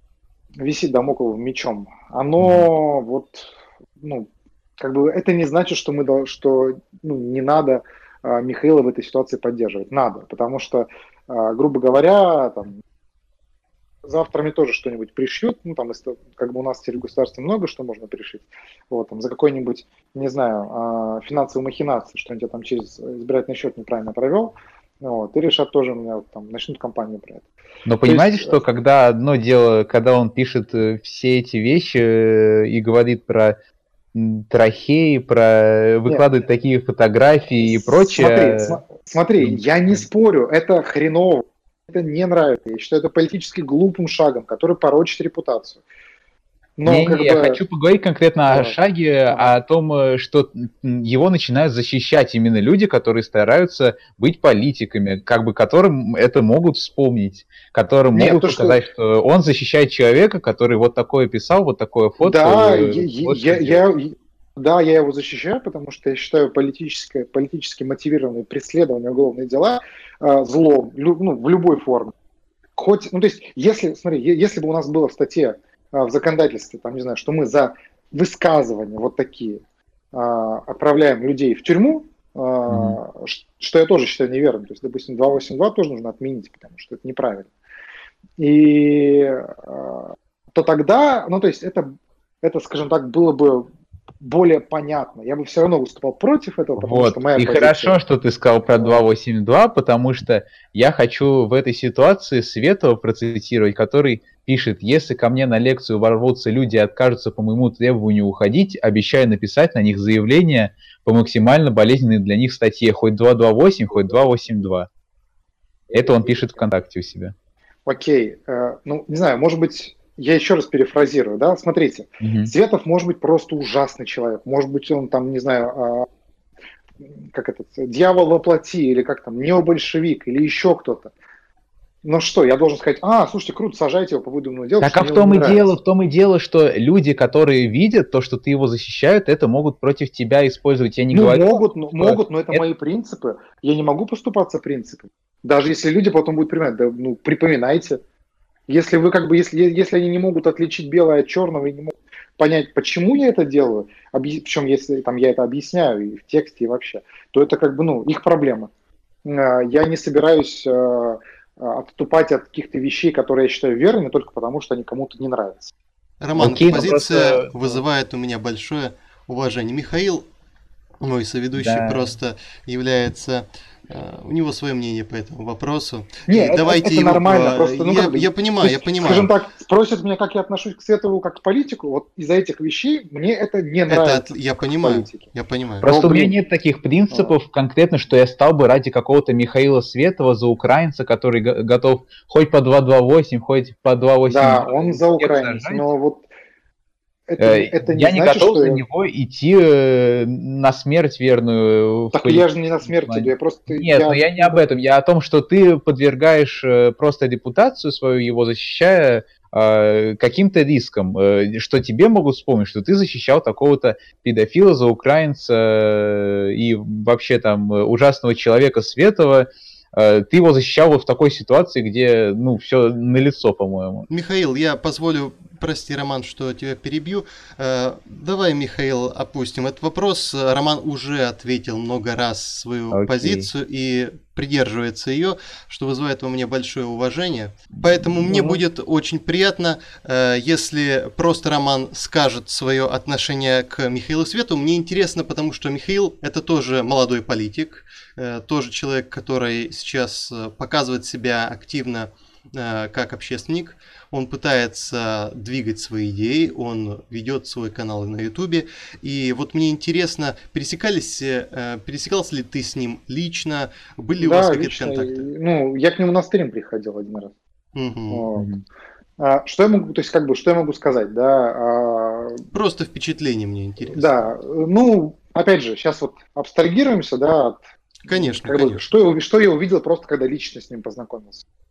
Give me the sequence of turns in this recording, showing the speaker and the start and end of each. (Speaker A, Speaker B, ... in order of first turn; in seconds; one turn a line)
Speaker A: 0.6-12.8
Speaker B: 2.4-2.7
Speaker A: 14.0-27.5
Speaker B: 27.9-33.6
Speaker A: 28.1-28.6
Speaker B: 34.1-38.8
Speaker A: 37.6-45.8
Speaker B: 39.4-40.0
Speaker A: 46.8-47.6
Speaker B: 46.9-63.9
Speaker A: 48.5-49.6
Speaker A: 58.1-58.8
Speaker A: 62.2-72.1
Speaker A: 72.8-79.6
Speaker A: 80.1-87.5
Speaker B: 82.7-83.0
Speaker A: 88.4-93.7
Speaker A: 94.2-98.0
Speaker B: 96.8-114.9
Speaker A: 98.7-99.0
Speaker B: 115.9-117.3
Speaker A: 117.9-126.1
Speaker B: 122.2-122.5
Speaker A: 127.0-131.1
Speaker A: 132.0-135.8
Speaker B: 134.8-142.6
Speaker A: 141.1-148.0
Speaker A: 148.7-158.7
Speaker A: 159.2-165.7
Speaker C: 166.2-170.2
Speaker B: 166.4-167.8
Speaker C: 171.0-179.3
Speaker B: 171.6-172.1
Speaker A: 176.3-185.3
Speaker C: 183.9-185.8
Speaker B: 185.8-195.8
Speaker A: 185.8-186.4
Speaker A: 194.3-196.3
Speaker A: 197.3-198.8
Speaker B: 197.4-224.1
Speaker A: 202.1-204.6
Speaker C: 224.1-265.3
Speaker B: 232.9-233.5
Speaker A: 238.3-238.6
Speaker A: 264.2-267.3
Speaker C: 267.8-268.3
Speaker A: 268.1-268.5
Speaker B: 268.4-268.6
Speaker A: 269.2-272.5
Speaker C: 272.5-274.3
Speaker A: 273.9-281.4
Speaker C: 278.1-278.8